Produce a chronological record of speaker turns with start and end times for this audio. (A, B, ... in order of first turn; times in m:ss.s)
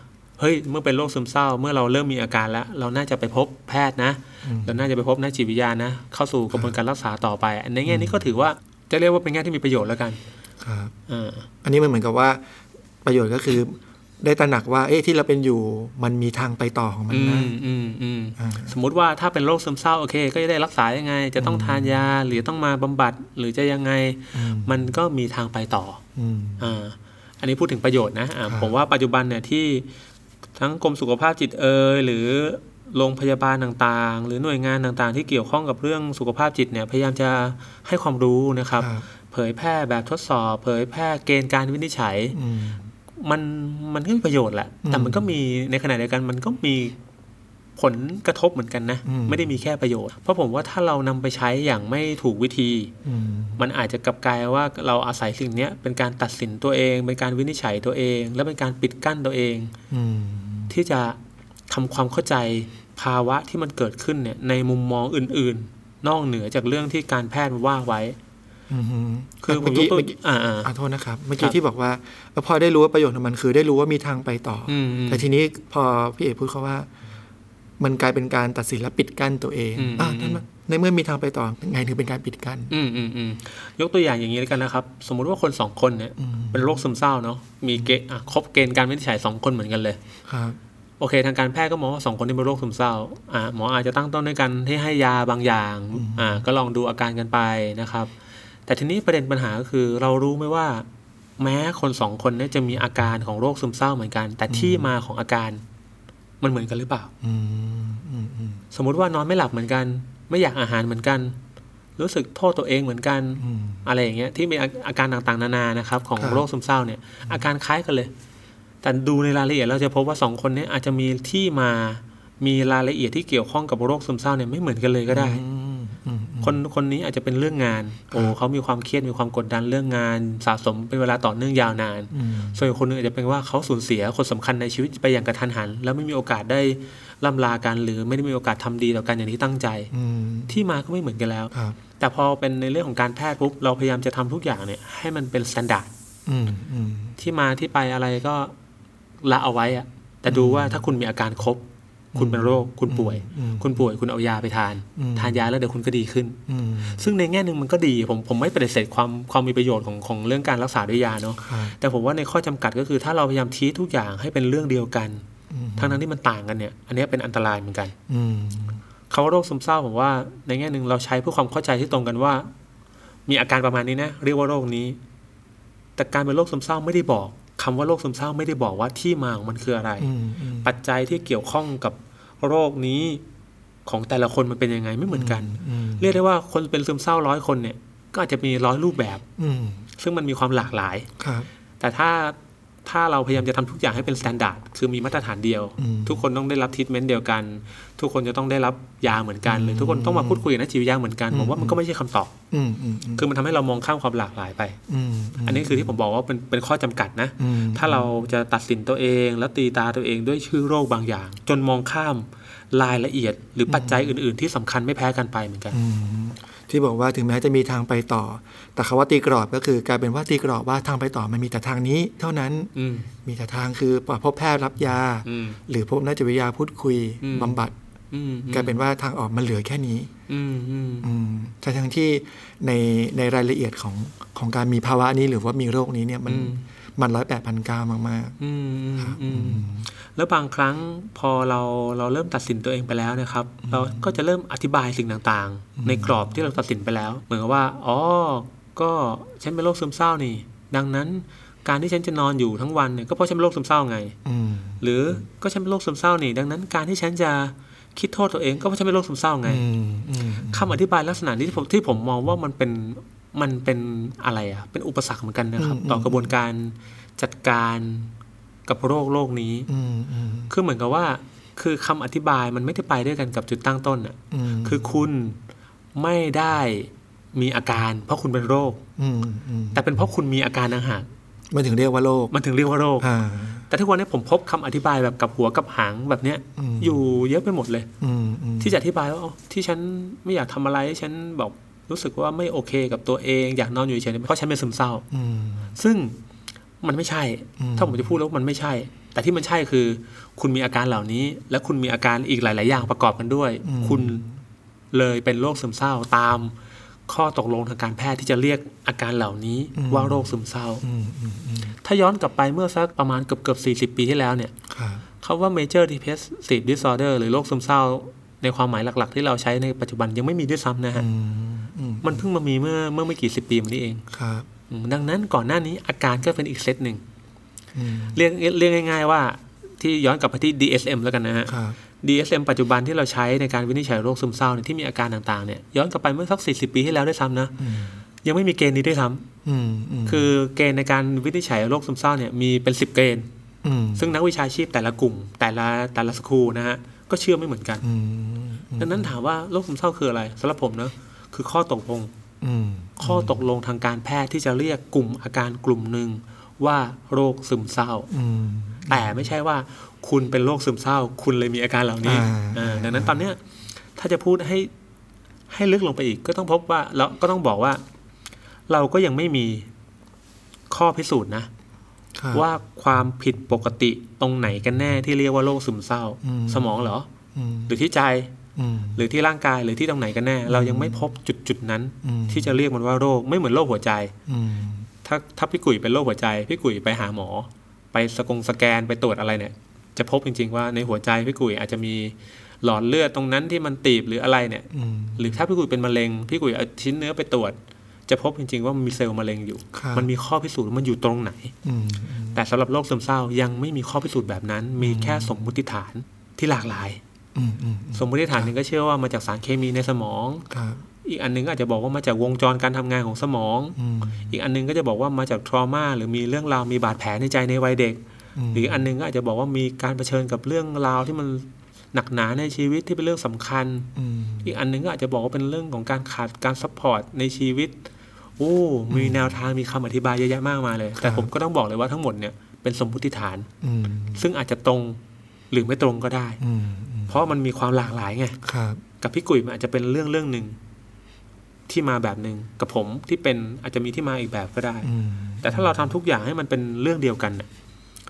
0:00.4-0:10.2 A
0:04.4-0:04.8 B
0:07.9-0:08.2 B
0:10.6-0:10.9 B
0:11.1-0:11.5 A
0:11.6-0:12.4 B
0:13.0-0:17.5 B
0:17.1-0:26.0 A
0:18.4-0:18.7 B
0:21.4-0:22.0 B
0:24.3-0:24.9 B
0:26.2-0:26.7 B
0:26.6-0:29.9 A
0:28.5-0:28.8 B
0:30.6-0:42.4 A
0:38.8-0:39.1 B
0:42.3-0:42.9 B
0:43.2-0:47.0 A
0:44.8-0:45.2 B
0:47.8-0:52.9 A
0:49.0-0:49.5 B
0:53.0-0:53.6 B
0:53.6-0:59.7 A
0:59.9-1:00.7 B
1:00.7-1:08.2 A
1:08.7-1:16.9 B
1:09.4-1:10.7 A
1:14.7-1:15.2 A
1:17.8-1:22.7 B
1:19.8-1:20.4 A
1:22.7-1:30.0 A
1:26.2-1:26.8 B
1:30.2-1:30.6 B
1:31.0-1:38.1 A
1:35.9-1:36.4 B
1:38.7-1:40.8 A
1:41.4-1:45.6 A
1:44.5-1:44.9 B
1:46.4-1:47.1 A
1:47.2-1:48.6 B
1:48.7-1:51.4 A
1:52.0-1:58.1 A
1:53.4-1:53.8 B
1:56.2-1:56.4 B
1:58.8-2:05.4 A
2:05.1-2:06.6 B
2:06.4-2:19.9 A
2:12.1-2:12.6 B
2:19.9-2:20.6 B
2:20.5-2:25.9 A
2:21.5-2:21.8 B
2:26.2-2:27.2 B
2:27.2-2:28.5 A
2:29.2-2:45.2 A
2:30.3-2:30.8 B
2:32.1-2:33.8 B
2:35.0-2:35.4 B
2:36.5-2:37.1 B
2:41.4-2:41.8 B
2:45.5-2:46.0 B
2:45.8-2:47.9 A
2:48.1-2:48.8 B
2:49.1-2:52.5 A
2:53.3-2:55.0 A
2:56.0-3:00.1 A
3:00.0-3:00.7 B
3:00.6-3:03.2 A
3:03.8-3:09.2 A
3:05.1-3:06.1 B
3:09.4-3:09.8 B
3:10.0-3:11.1 A
3:11.2-3:11.5 B
3:11.8-3:22.3 A
3:15.8-3:16.2 B
3:19.4-3:20.4 B
3:21.3-3:21.8 B
3:22.5-3:23.2 B
3:23.2-3:24.8 A
3:24.9-3:25.9 B
3:25.4-3:35.8 A
3:27.4-3:28.1 B
3:33.7-3:34.1 B
3:35.7-3:42.7 B
3:42.7-3:43.1 A
3:43.2-3:47.7 B
3:45.2-3:45.6 A
3:47.2-3:47.6 A
3:48.1-3:48.8 A
3:48.5-3:50.1 B
3:50.3-3:51.1 A
3:51.0-3:58.4 B
3:56.3-3:56.6 A
3:58.4-4:14.2 A
3:59.0-3:59.9 B
4:03.6-4:04.1 B
4:05.8-4:06.3 B
4:14.2-4:14.8 B
4:14.8-4:19.6 A
4:19.4-4:20.8 B
4:20.5-4:28.1 A
4:25.6-4:26.3 B
4:28.7-4:29.7 A
4:29.7-4:30.5 B
4:30.5-4:35.4 A
4:34.3-4:35.0 B
4:35.9-4:38.8 A
4:39.0-4:39.8 B
4:39.7-4:41.0 A
4:41.5-4:42.3 B
4:42.3-4:43.1 A
4:43.0-4:43.6 B
4:43.7-4:47.9 A
4:46.6-4:47.0 B
4:48.0-4:48.8 B
4:48.6-4:55.0 A
4:55.1-4:55.7 B
4:55.7-4:56.2 A
4:56.8-5:04.2 A
4:57.6-4:58.1 B
5:03.6-5:04.4 B
5:04.9-5:06.5 A
5:07.1-5:10.8 A
5:09.8-5:11.7 B
5:11.8-5:14.5 A
5:14.7-5:15.0 B
5:15.2-5:21.1 A
5:20.9-5:22.2 B
5:22.0-5:24.0 A
5:24.1-5:24.5 B
5:24.7-5:27.0 A
5:27.7-5:28.2 B
5:28.1-5:37.6 A
5:31.5-5:31.8 B
5:37.6-5:38.0 B
5:38.2-5:39.3 A
5:39.4-5:40.3 B
5:40.0-5:43.3 A
5:43.6-5:44.1 B
5:44.0-5:47.8 A
5:47.8-5:49.1 B
5:48.8-5:52.1 A
5:52.4-5:53.4 B
5:53.0-5:58.1 A
5:58.1-5:59.3 B
5:58.9-6:03.4 A
6:02.0-6:03.2 B
6:04.0-6:04.7 A
6:05.5-6:07.8 A
6:08.7-6:09.7 A
6:10.7-6:11.5 A
6:12.2-6:12.4 B
6:12.3-6:17.1 A
6:16.2-6:17.7 B
6:17.7-6:18.4 A
6:18.6-6:19.0 B
6:18.9-6:24.1 A
6:20.5-6:21.0 B
6:22.0-6:22.6 B
6:24.3-6:24.9 B
6:25.0-6:37.6 A
6:34.7-6:35.4 B
6:38.1-6:41.5 A
6:39.7-6:40.1 B
6:41.6-6:42.4 B
6:42.3-6:47.0 A
6:44.8-6:45.4 B
6:47.3-6:48.5 B
6:47.9-6:50.5 A
6:50.5-6:50.8 B
6:51.0-6:58.0 A
6:53.8-6:54.4 B
6:58.4-6:58.9 B
6:58.5-7:03.9 A
7:04.0-7:04.5 B
7:04.4-7:07.8 A
7:08.4-7:13.5 A
7:08.9-7:09.3 B
7:11.0-7:11.3 B
7:13.6-7:14.2 B
7:14.1-7:15.0 A
7:15.5-7:16.4 A
7:16.4-7:17.1 B
7:17.1-7:18.4 A
7:18.4-7:18.8 B
7:19.0-7:20.6 A
7:21.7-7:24.9 A
7:24.8-7:25.9 B
7:25.4-7:27.5 A